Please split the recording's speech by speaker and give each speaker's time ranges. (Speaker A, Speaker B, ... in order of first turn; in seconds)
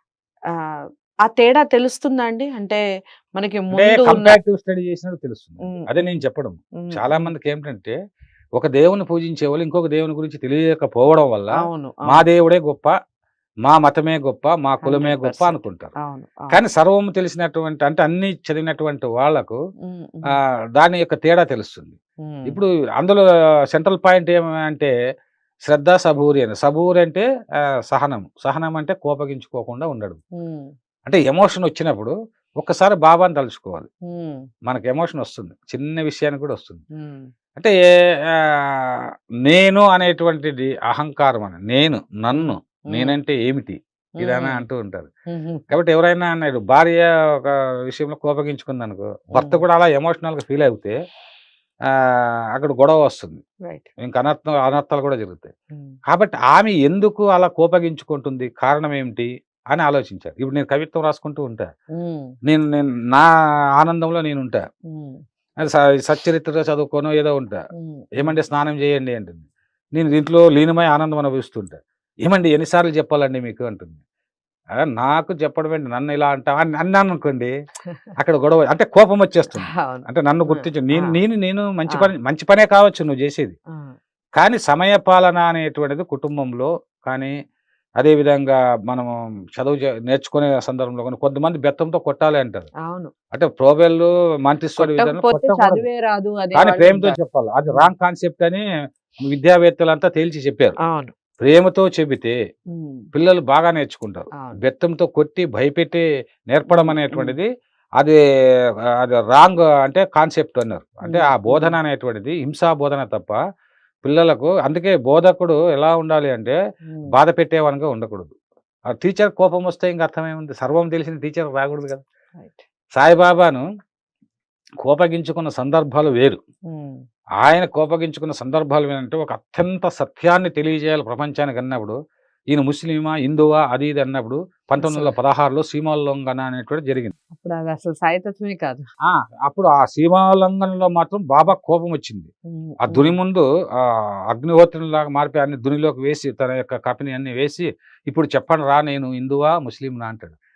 Speaker A: 0.7-2.8, 3.4-4.4, 6.8-7.3, 11.6-12.2, 14.8-16.6, 19.9-20.4, 22.2-22.6, 30.4-30.7, 34.1-34.4, 37.0-37.3, 42.3-43.2, 44.2-44.7, 45.3-45.7, 49.4-49.6, 62.0-62.3, 64.9-65.2, 67.8-68.4, 79.8-81.2, 92.8-93.1, 94.8-97.2, 100.8-101.1, 102.7-103.1, 106.7-107.4, 111.0-111.8, 122.4-122.7, 126.7-127.0, 134.8-135.2, 137.3-138.9, 142.5-143.2
Speaker B: 3.7-8.0, 8.6-12.9, 13.7-15.9, 16.5-19.6, 20.3-22.0, 22.5-24.9, 25.7-27.2, 27.9-30.2, 31.1-33.9, 34.7-36.8, 38.3-39.0, 39.5-45.1, 45.7-51.0, 51.9-53.4, 54.0-55.5, 56.1-61.7, 62.5-64.6, 65.6-67.6, 68.2-74.0, 74.8-77.5, 78.2-83.5, 84.4-87.3, 88.0-92.7, 93.3-95.9, 96.5-98.6, 99.2-100.8, 101.4-102.3, 103.1-107.5, 109.0-113.4, 114.0-116.6, 117.1-118.3, 118.9-122.0, 123.0-123.7, 124.8-126.4, 127.4-132.0, 132.5-137.1, 139.1-142.3, 142.8-150.4